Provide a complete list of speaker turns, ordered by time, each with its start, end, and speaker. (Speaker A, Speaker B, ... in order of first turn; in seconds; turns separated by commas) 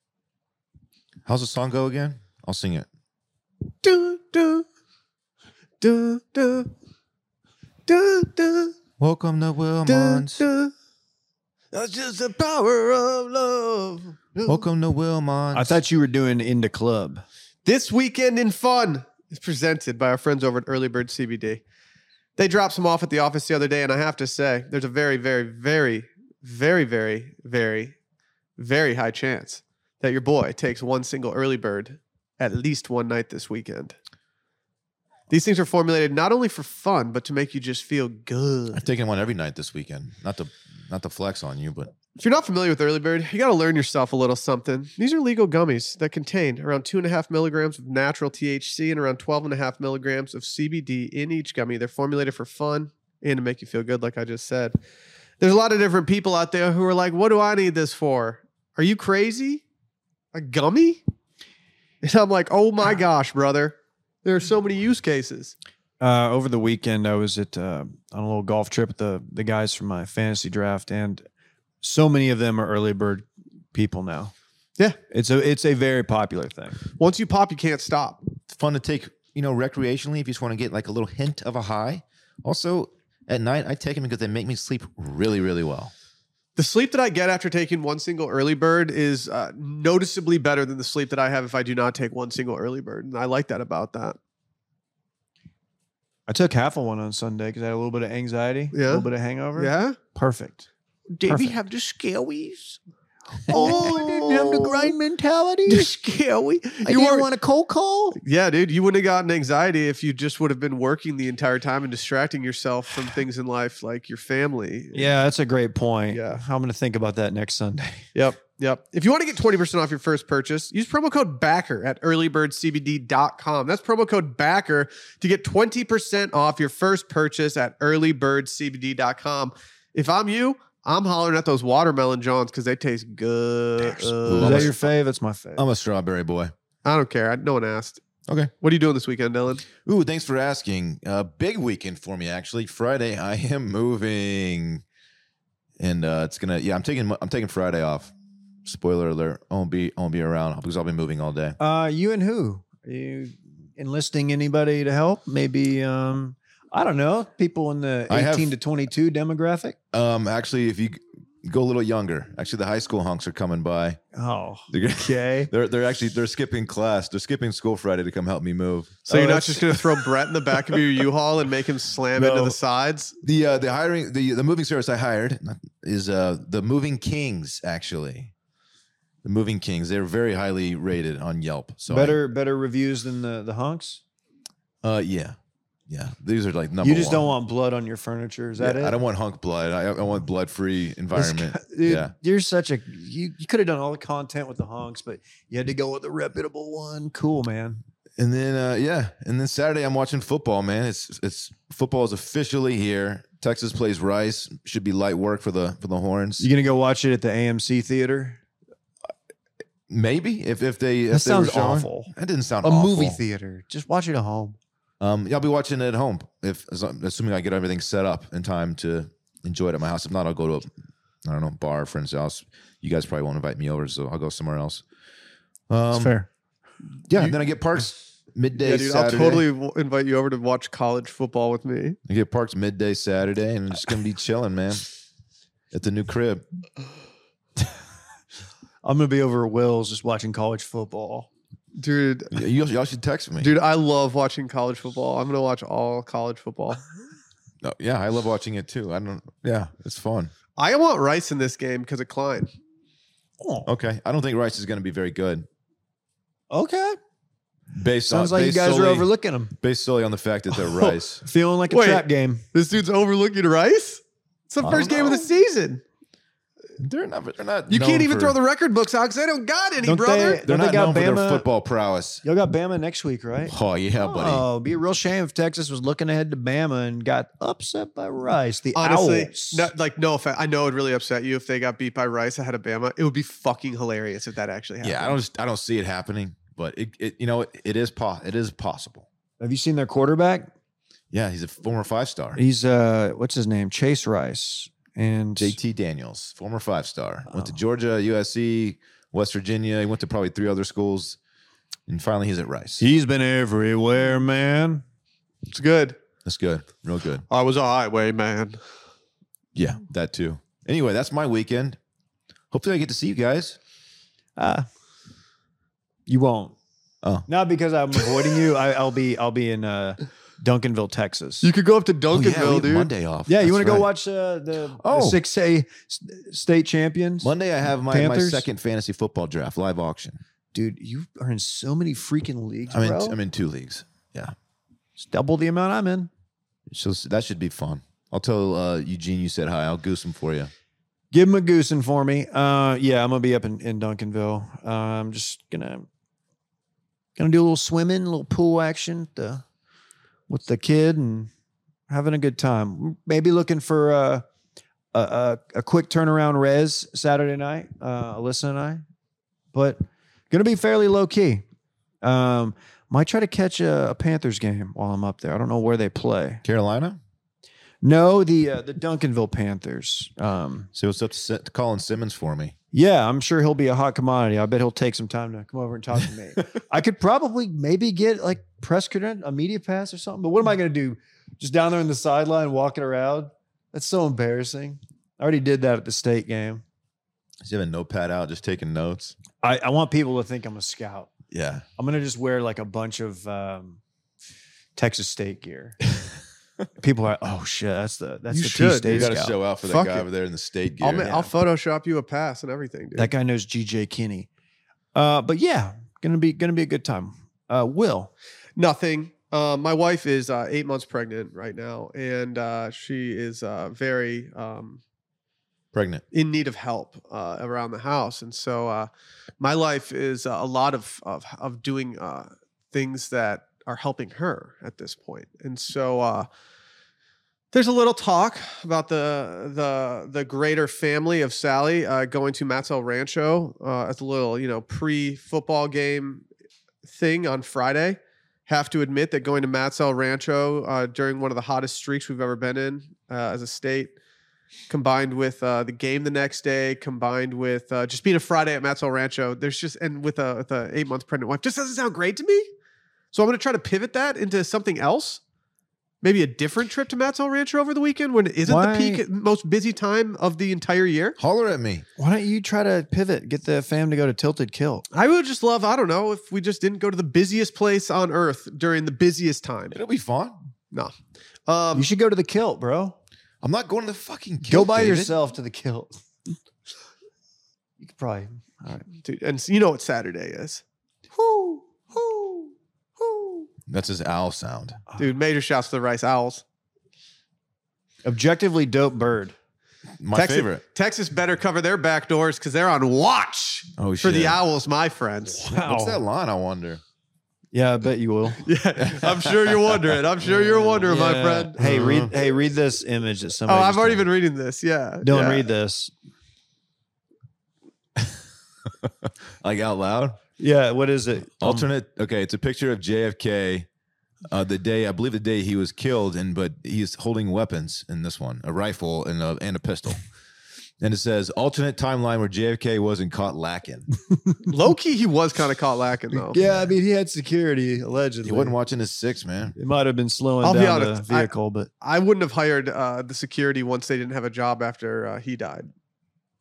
Speaker A: 1.3-2.9, Speaker B: 3.8-4.7, Speaker B: 5.8-6.7, Speaker B: 7.9-8.7, Speaker A: 9.0-10.4, Speaker B: 9.9-10.7, Speaker B: 11.7-14.7, Speaker A: 14.4-15.8, Speaker C: 15.5-17.2, Speaker B: 17.6-21.6, Speaker B: 22.4-27.9, Speaker B: 28.6-34.0, Speaker B: 35.3-38.9, Speaker A: 38.7-41.9, Speaker B: 42.2-54.8, Speaker B: 55.4-59.6, Speaker B: 60.3-61.0, Speaker B: 62.0-65.5, Speaker C: 66.0-71.2, Speaker C: 71.8-74.3, Speaker C: 75.1-76.8, Speaker B: 77.0-78.2, Speaker A: 78.5-85.9, Speaker B: 86.6-94.2, Speaker C: 96.3-100.7, Speaker B: 98.7-100.0, Speaker B: 101.1-102.8, Speaker C: 101.3-101.6, Speaker C: 103.5-105.9, Speaker B: 103.5-105.0, Speaker B: 105.7-107.3, Speaker C: 106.8-108.2, Speaker B: 108.2-115.1, Speaker C: 114.9-118.1, Speaker B: 116.1-116.4, Speaker B: 118.1-134.8, Speaker C: 133.9-135.7, Speaker A: 134.2-134.7, Speaker A: 135.6-136.5, Speaker B: 136.8-138.0, Speaker A: 138.3-138.5, Speaker B: 138.6-139.7, Speaker A: 139.8-144.8, Speaker A: 145.8-148.1, Speaker A: 148.6-151.6, Speaker C: 151.6-159.8, Speaker A: 158.1-158.5, Speaker A: 159.9-164.0, Speaker C: 164.1-165.5, Speaker A: 164.7-169.1, Speaker C: 169.1-169.7, Speaker B: 169.1-173.2, Speaker C: 172.1-172.6, Speaker A: 173.2-178.3, Speaker A: 179.2-182.2, Speaker C: 181.9-184.0, Speaker A: 184.8-185.4, Speaker A: 185.9-187.3, Speaker C: 186.8-188.9, Speaker A: 188.6-192.1, Speaker C: 191.1-197.8, Speaker A: 198.2-206.5, Speaker C: 206.4-208.4, Speaker A: 209.9-213.2, Speaker C: 211.1-214.6, Speaker A: 215.0-220.7, Speaker A: 221.2-224.8, Speaker A: 225.7-226.2, Speaker C: 225.9-226.3, Speaker A: 227.1-229.4, Speaker B: 228.6-232.0, Speaker A: 232.1-234.8, Speaker A: 235.7-236.4, Speaker C: 238.8-241.3, Speaker B: 241.8-242.4, Speaker A: 242.3-243.5, Speaker B: 243.4-246.9, Speaker A: 247.6-250.3, Speaker B: 250.6-252.5, Speaker C: 253.4-253.7, Speaker A: 253.7-255.4, Speaker C: 256.5-257.0, Speaker A: 257.7-259.1, Speaker C: 258.1-259.6, Speaker A: 259.6-261.2, Speaker C: 261.2-262.4, Speaker B: 261.7-265.8, Speaker A: 264.6-265.3, Speaker A: 266.8-268.4, Speaker B: 267.7-270.4, Speaker C: 269.8-271.4, Speaker A: 270.4-272.2, Speaker C: 272.2-279.7, Speaker A: 273.5-274.4, Speaker B: 278.7-285.2, Speaker A: 284.8-289.1, Speaker C: 289.4-290.5, Speaker A: 291.1-292.4, Speaker C: 292.4-295.6, Speaker A: 295.4-301.2, Speaker A: 301.9-302.9, Speaker C: 302.8-304.8, Speaker B: 305.5-306.0, Speaker A: 306.2-307.2, Speaker B: 307.3-308.6, Speaker A: 309.6-311.8, Speaker A: 312.5-313.6, Speaker C: 314.4-314.7, Speaker C: 316.1-316.6, Speaker A: 317.0-317.3, Speaker C: 317.3-321.5, Speaker B: 321.4-322.9, Speaker A: 322.1-323.9, Speaker C: 323.3-327.3, Speaker A: 324.8-325.2, Speaker A: 327.2-330.2, Speaker C: 327.9-328.5, Speaker C: 330.5-333.2, Speaker A: 332.7-334.3, Speaker C: 335.0-336.1, Speaker A: 336.7-340.5, Speaker C: 341.1-345.9, Speaker C: 347.2-349.4, Speaker C: 350.3-351.3, Speaker C: 351.9-354.2, Speaker C: 354.9-358.8, Speaker C: 359.5-361.4, Speaker C: 362.0-366.4, Speaker A: 366.4-367.0, Speaker C: 367.8-370.7, Speaker A: 370.7-372.5, Speaker C: 372.7-386.6, Speaker A: 387.4-389.1, Speaker C: 389.4-391.1, Speaker A: 391.3-391.7, Speaker C: 391.8-393.8, Speaker C: 394.8-395.8, Speaker C: 396.8-399.4, Speaker B: 398.3-400.1, Speaker A: 398.9-401.1, Speaker B: 400.8-403.1, Speaker C: 401.0-401.3, Speaker C: 403.0-404.3, Speaker C: 404.9-408.1, Speaker B: 408.6-414.8, Speaker A: 415.7-416.0, Speaker B: 416.1-418.9, Speaker B: 419.4-426.3, Speaker B: 427.5-436.2, Speaker B: 436.8-443.9, Speaker B: 444.7-452.5, Speaker B: 453.1-455.2, Speaker B: 456.0-461.2, Speaker C: 458.5-459.0, Speaker A: 461.2-461.8, Speaker C: 462.0-464.9, Speaker B: 464.9-469.8, Speaker A: 469.7-470.4, Speaker B: 471.5-471.9, Speaker C: 471.7-473.0, Speaker A: 473.4-475.1, Speaker C: 474.4-476.0, Speaker C: 477.8-478.9, Speaker B: 479.0-480.6, Speaker C: 481.1-483.5, Speaker A: 483.7-484.8, Speaker B: 485.0-486.4, Speaker C: 488.1-489.3, Speaker A: 490.0-490.6, Speaker B: 490.1-495.4, Speaker A: 493.8-494.4, Speaker C: 495.4-496.0, Speaker A: 495.4-496.8, Speaker C: 497.5-498.5, Speaker B: 498.4-502.3, Speaker A: 498.8-499.8, Speaker C: 500.6-504.1, Speaker A: 501.6-502.1, Speaker B: 503.5-505.5, Speaker C: 505.0-505.9, Speaker A: 508.0-510.2, Speaker C: 510.4-511.7, Speaker A: 511.4-513.7, Speaker A: 514.3-520.0, Speaker A: 520.8-523.9, Speaker B: 524.5-526.4, Speaker C: 526.1-528.6, Speaker A: 526.4-526.7, Speaker A: 528.2-529.5, Speaker C: 529.5-531.7, Speaker B: 530.4-535.7